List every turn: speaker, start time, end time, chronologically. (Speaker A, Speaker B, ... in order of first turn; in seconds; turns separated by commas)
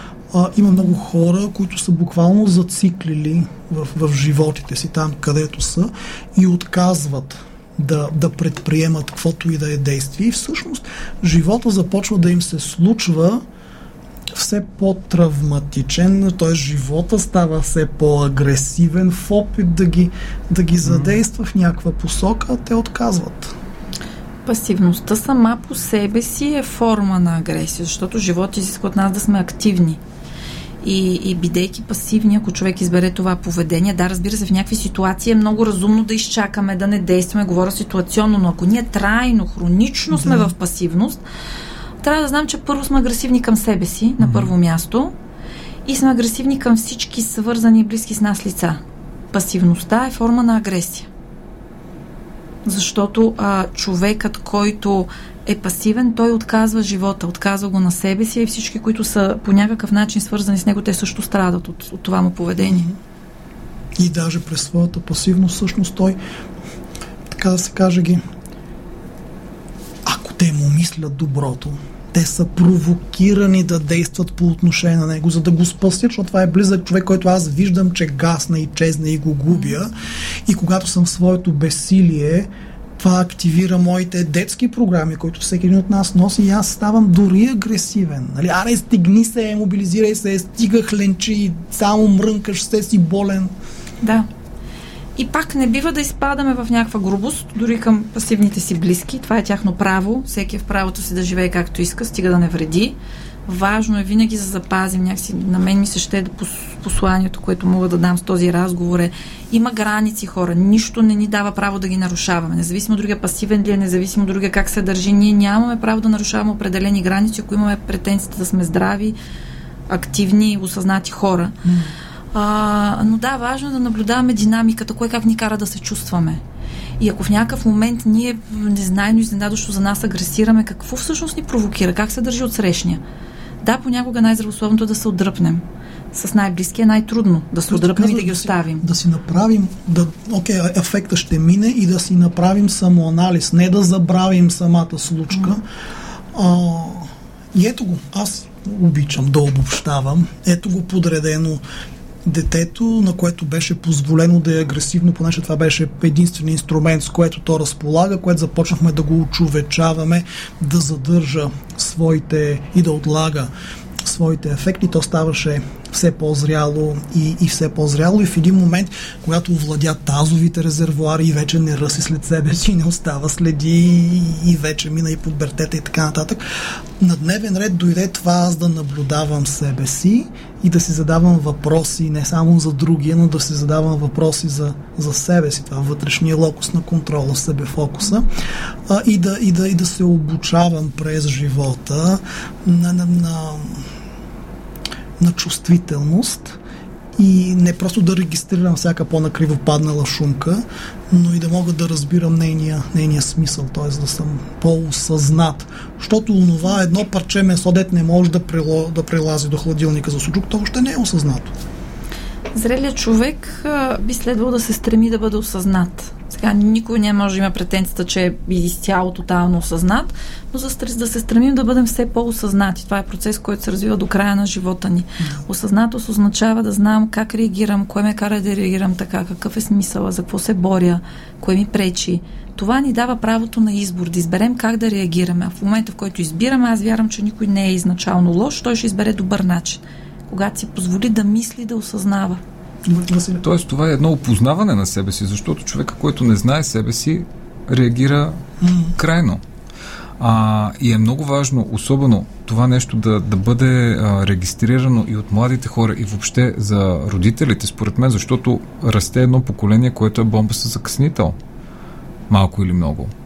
Speaker A: 0.3-13.4, Speaker A: 14.3-23.5, Speaker B: 24.4-30.0, Speaker B: 30.8-41.2, Speaker A: 40.1-40.5, Speaker B: 42.0-45.1, Speaker C: 44.2-44.5, Speaker B: 45.8-48.8, Speaker B: 49.3-51.1, Speaker B: 52.6-62.9, Speaker A: 62.6-63.0, Speaker A: 64.0-66.2, Speaker A: 67.3-68.2, Speaker A: 70.0-79.9, Speaker A: 80.5-93.5, Speaker B: 94.0-94.3, Speaker B: 95.2-103.0, Speaker B: 103.5-119.2, Speaker B: 119.9-121.5, Speaker A: 121.6-121.9, Speaker B: 122.3-126.4, Speaker B: 127.0-133.0, Speaker B: 133.6-138.8, Speaker A: 137.7-145.6, Speaker A: 146.3-151.6, Speaker A: 152.2-163.5, Speaker A: 164.0-188.3, Speaker A: 188.9-193.9, Speaker A: 195.2-196.6, Speaker A: 197.2-211.5, Speaker B: 212.5-242.4, Speaker A: 242.8-243.4, Speaker C: 243.4-248.4, Speaker A: 248.6-248.9, Speaker C: 248.9-249.4, Speaker C: 250.2-261.4, Speaker C: 262.3-263.1